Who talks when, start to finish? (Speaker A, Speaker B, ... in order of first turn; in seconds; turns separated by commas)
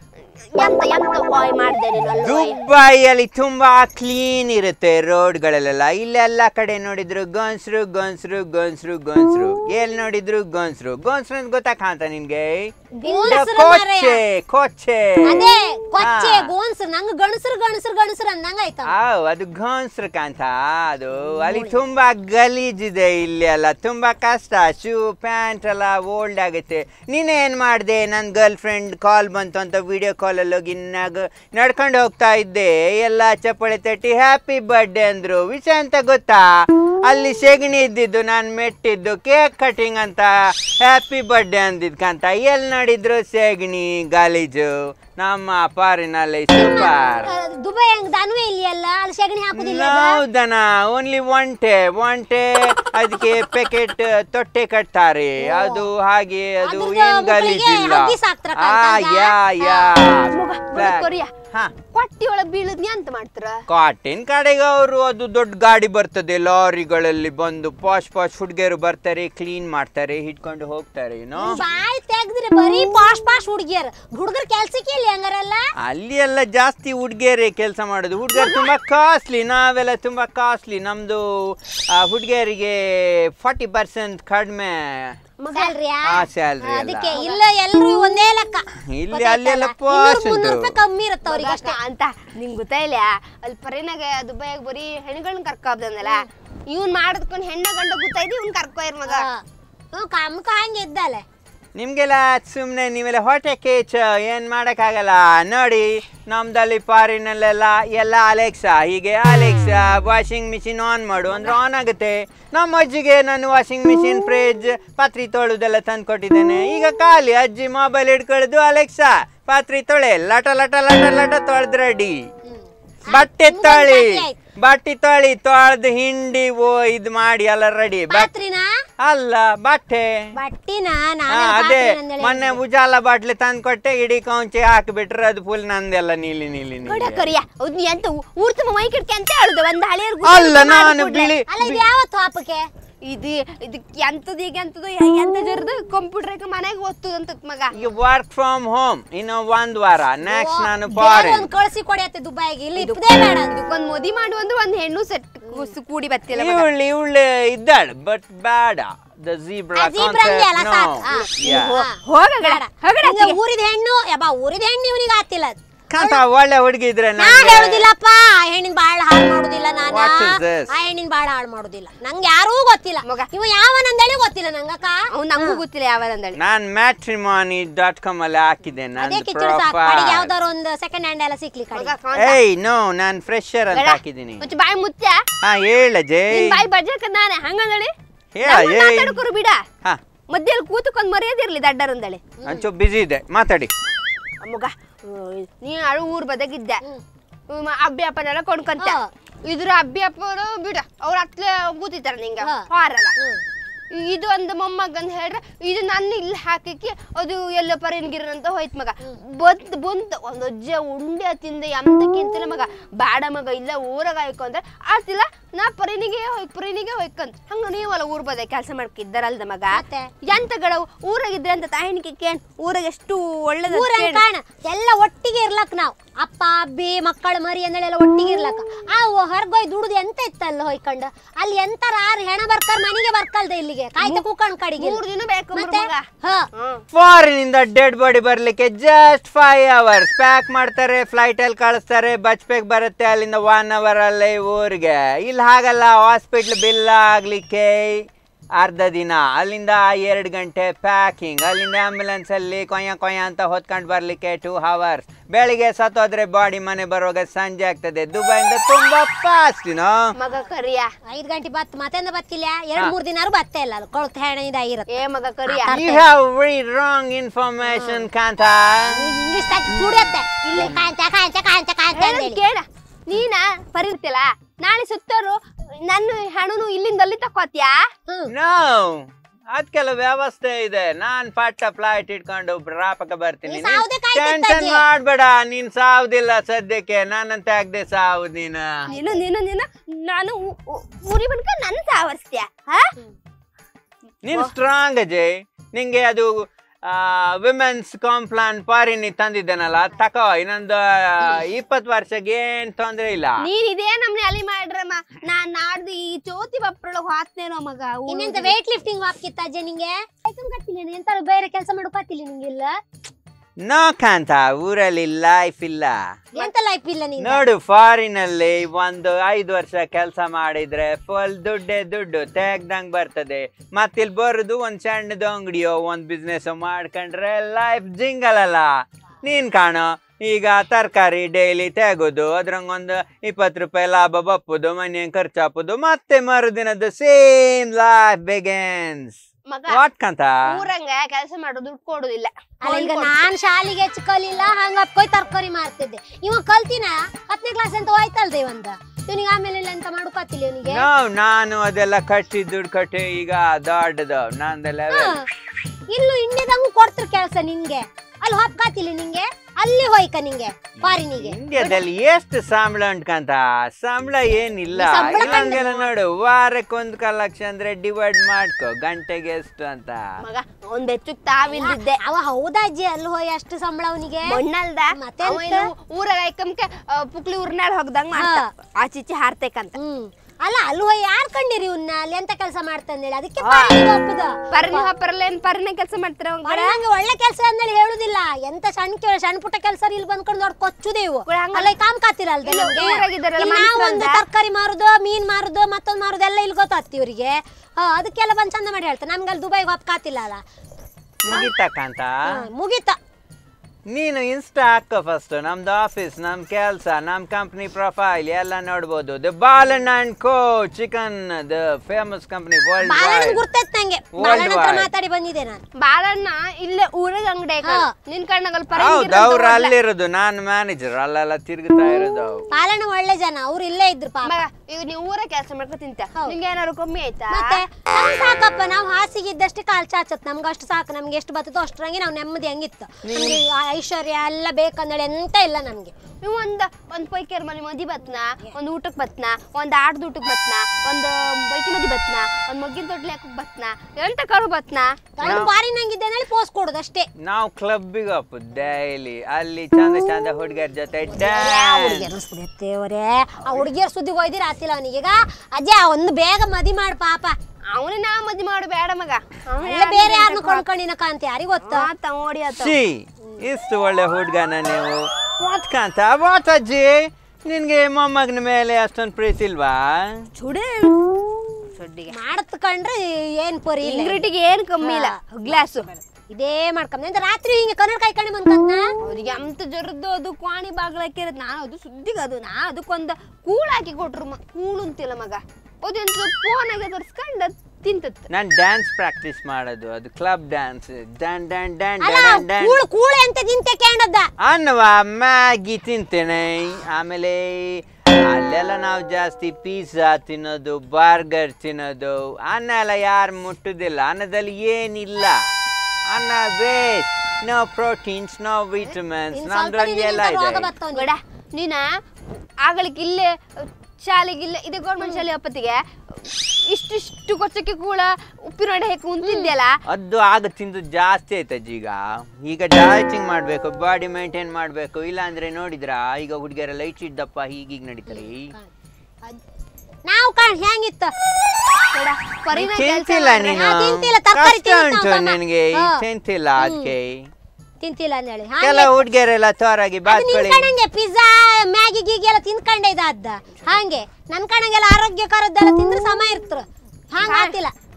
Speaker A: 0.5-2.6, Speaker B: 2.2-16.5, Speaker C: 13.0-14.2, Speaker A: 13.0-13.4, Speaker C: 15.2-18.9, Speaker B: 18.9-47.3, Speaker C: 21.3-21.8, Speaker C: 46.5-50.2, Speaker B: 49.5-61.7, Speaker A: 55.5-55.8, Speaker C: 56.6-59.8, Speaker A: 60.3-61.3, Speaker A: 61.9-63.6, Speaker B: 63.7-71.6, Speaker C: 71.4-75.7, Speaker B: 75.8-85.2, Speaker C: 78.4-78.7, Speaker C: 85.4-91.8, Speaker B: 86.0-87.1, Speaker A: 87.1-87.4, Speaker B: 88.8-90.8, Speaker A: 91.2-99.2, Speaker C: 99.1-101.2, Speaker B: 101.8-122.2, Speaker C: 122.4-124.4, Speaker B: 123.1-128.3, Speaker C: 128.1-128.7, Speaker B: 129.0-130.3, Speaker C: 130.3-132.6, Speaker B: 131.3-137.2, Speaker A: 136.8-141.3, Speaker B: 140.2-141.8, Speaker C: 141.5-142.7, Speaker A: 143.1-147.8, Speaker B: 147.7-151.5, Speaker C: 150.2-153.5, Speaker A: 152.8-156.7, Speaker C: 155.4-155.7, Speaker B: 156.3-161.7, Speaker C: 159.8-166.2, Speaker A: 161.1-163.4, Speaker B: 165.9-167.9, Speaker C: 167.2-175.6, Speaker B: 169.9-170.7, Speaker A: 175.1-176.4, Speaker B: 176.3-180.3, Speaker C: 179.0-181.9, Speaker A: 181.7-182.4, Speaker B: 182.1-184.5, Speaker A: 183.7-185.2, Speaker B: 185.4-186.6, Speaker A: 186.3-187.9, Speaker B: 188.3-189.2, Speaker A: 188.4-189.6, Speaker A: 190.3-192.4, Speaker B: 192.4-193.7, Speaker A: 194.4-196.8, Speaker A: 197.5-203.1, Speaker C: 198.8-199.1, Speaker C: 203.2-203.4, Speaker A: 203.9-224.2, Speaker C: 219.7-220.1, Speaker C: 223.7-235.0, Speaker A: 234.8-236.8, Speaker C: 235.5-236.5, Speaker B: 236.9-248.1, Speaker B: 248.6-260.1, Speaker A: 260.2-260.9, Speaker C: 261.0-266.0, Speaker A: 264.9-266.0, Speaker B: 265.7-269.0, Speaker C: 267.7-268.0, Speaker C: 268.9-272.4, Speaker B: 269.7-270.8, Speaker A: 270.4-270.8, Speaker A: 271.9-277.9, Speaker C: 278.1-278.3, Speaker B: 278.3-288.9, Speaker C: 283.5-284.9, Speaker C: 288.9-289.2, Speaker A: 288.9-292.9, Speaker B: 294.2-303.5, Speaker A: 303.4-308.5, Speaker C: 308.1-312.8, Speaker B: 313.6-316.1, Speaker C: 316.3-317.4, Speaker B: 317.2-328.7, Speaker B: 329.2-340.4, Speaker A: 339.5-339.8, Speaker A: 340.4-343.2, Speaker C: 342.6-350.9, Speaker B: 350.6-355.4, Speaker C: 354.9-355.2, Speaker C: 355.9-361.7, Speaker B: 360.8-370.2, Speaker C: 364.7-365.7, Speaker A: 365.1-365.7, Speaker A: 370.2-372.0, Speaker C: 371.5-374.4, Speaker A: 374.2-379.8, Speaker C: 374.9-375.7, Speaker C: 378.1-378.5, Speaker C: 379.8-384.9, Speaker A: 383.4-383.8, Speaker A: 384.5-386.8, Speaker C: 386.4-400.4, Speaker A: 391.3-391.7, Speaker A: 392.4-394.2, Speaker B: 401.2-402.4, Speaker C: 402.3-403.0, Speaker B: 403.9-413.4, Speaker C: 412.8-415.6, Speaker B: 414.1-414.9, Speaker A: 415.8-419.7, Speaker C: 417.6-417.9, Speaker B: 418.7-422.4, Speaker C: 422.5-424.4, Speaker A: 424.2-427.6, Speaker C: 427.3-435.9, Speaker B: 433.0-433.4, Speaker A: 436.2-445.5, Speaker C: 445.2-447.1, Speaker B: 445.2-445.5, Speaker B: 447.2-452.1, Speaker C: 451.1-457.4, Speaker A: 457.7-460.6, Speaker C: 459.6-461.9, Speaker A: 461.6-462.7, Speaker B: 462.5-470.3, Speaker A: 470.3-472.1, Speaker C: 472.1-474.2, Speaker A: 473.8-475.9, Speaker C: 474.8-475.8, Speaker C: 476.3-478.8, Speaker A: 479.0-488.3, Speaker B: 488.3-492.8, Speaker C: 492.0-494.3, Speaker B: 494.4-505.4, Speaker B: 506.1-510.7, Speaker C: 509.3-511.1, Speaker A: 510.9-512.0, Speaker A: 512.6-519.7, Speaker C: 519.2-519.5, Speaker B: 519.9-528.5, Speaker C: 528.1-528.7, Speaker C: 530.0-531.1, Speaker A: 531.9-533.6, Speaker B: 532.5-537.3, Speaker C: 533.5-536.0, Speaker C: 536.6-536.9, Speaker C: 537.8-539.0, Speaker B: 538.6-540.7, Speaker C: 540.1-547.7, Speaker A: 547.2-547.6